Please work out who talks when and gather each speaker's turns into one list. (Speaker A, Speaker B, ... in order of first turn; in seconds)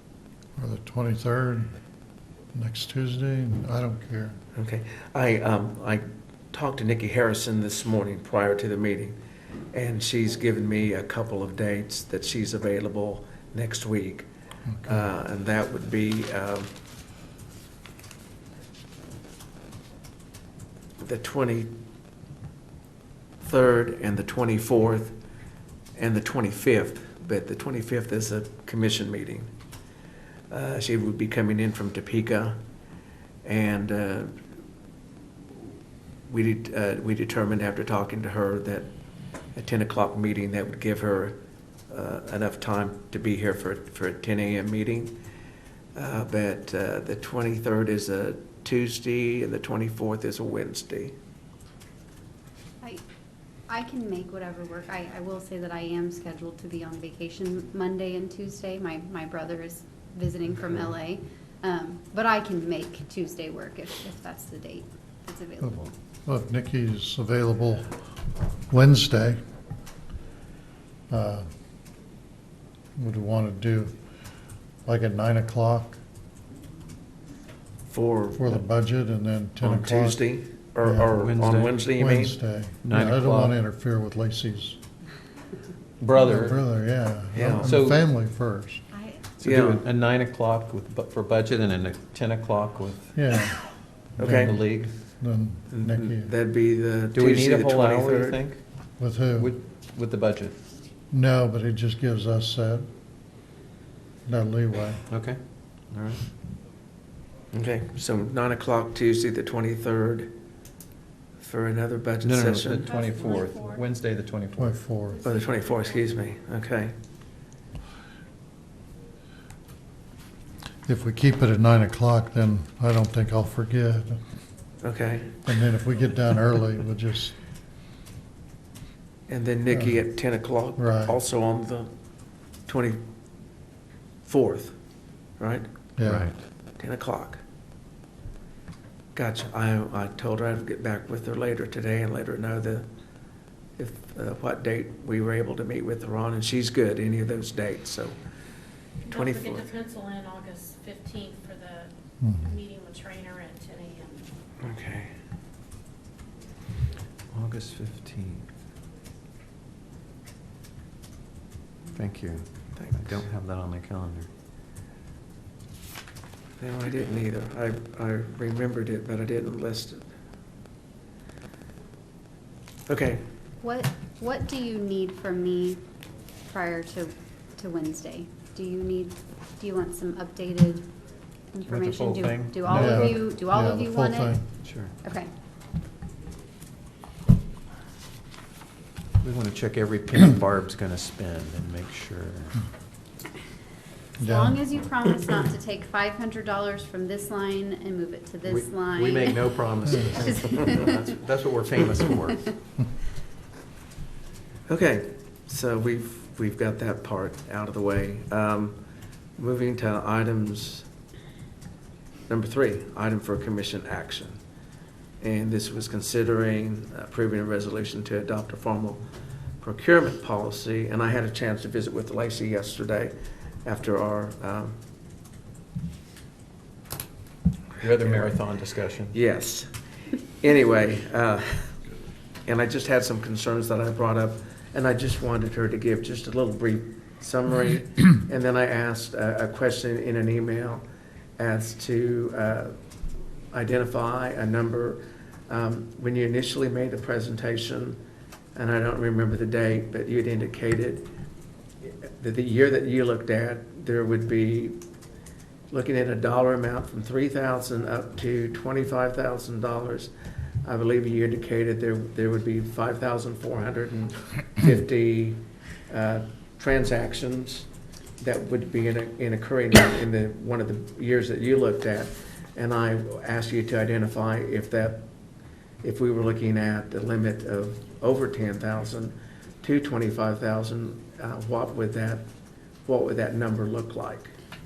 Speaker A: 0.6-1.7, 2.5-4.3, 14.7-15.0, 65.6-67.9, 68.7-69.4, 71.1-71.5, 73.0-73.9, 74.8-76.0, 78.3-80.2, 80.8-81.2, 81.9-84.8, 86.1-88.8, 93.1-93.6, 95.2-96.3, 99.0-99.5, 101.1-102.8, 104.2-105.0, 114.6-115.2, 120.8-124.2, 125.5-127.3, 129.7-129.9, 130.8-131.2, 136.0-136.3, 152.2-152.5, 182.7-184.4, 194.2-194.6
Speaker B: 4.5-9.2, 9.7-14.3, 14.8-16.7, 21.0-21.7, 23.4-25.1, 26.0-29.5, 30.5-32.6, 33.4-34.4, 36.3-38.9, 39.5-41.4, 41.9-45.1, 45.9-51.1, 77.9-78.7, 79.6-82.3, 87.3-87.8, 89.4-89.9, 94.2-94.5, 95.7-98.4, 107.5-110.3, 111.4-112.9, 115.2-116.9, 124.8-125.4, 129.3-131.9, 132.7-133.0, 134.2-134.7, 135.4-135.7, 136.8-137.4, 139.1-142.9, 143.8-148.1, 149.1-149.7, 154.6-155.1, 162.8-163.2, 166.6-170.1, 172.9-173.2, 204.7-208.8, 209.4-210.9, 212.3-214.4, 215.2-219.0, 219.6-224.8, 228.0-228.3, 229.1-229.7, 230.4-231.7, 232.4-240.8, 241.4-242.8, 243.5-248.0, 248.5-251.1, 251.8-254.8, 255.7-260.1, 260.6-267.7, 268.2-275.0, 275.8-282.2, 282.8-284.3
Speaker C: 53.7-65.8, 88.9-89.2, 112.8-113.8, 173.6-175.8, 176.5-180.9, 181.5-184.4, 185.0-185.3, 194.2-200.9
Speaker D: 81.2-81.8, 82.8-83.5, 86.0-86.6, 87.6-88.0, 89.4-93.1, 94.2-94.9, 97.1-98.6, 99.4-100.6, 105.1-105.4, 105.9-106.2, 112.2-114.8, 136.1-136.3, 157.3-158.5, 161.9-164.3, 181.6-183.2, 184.6-184.9, 189.2-192.6, 198.4-202.5, 227.8-229.1
Speaker E: 149.0-151.9, 152.4-154.3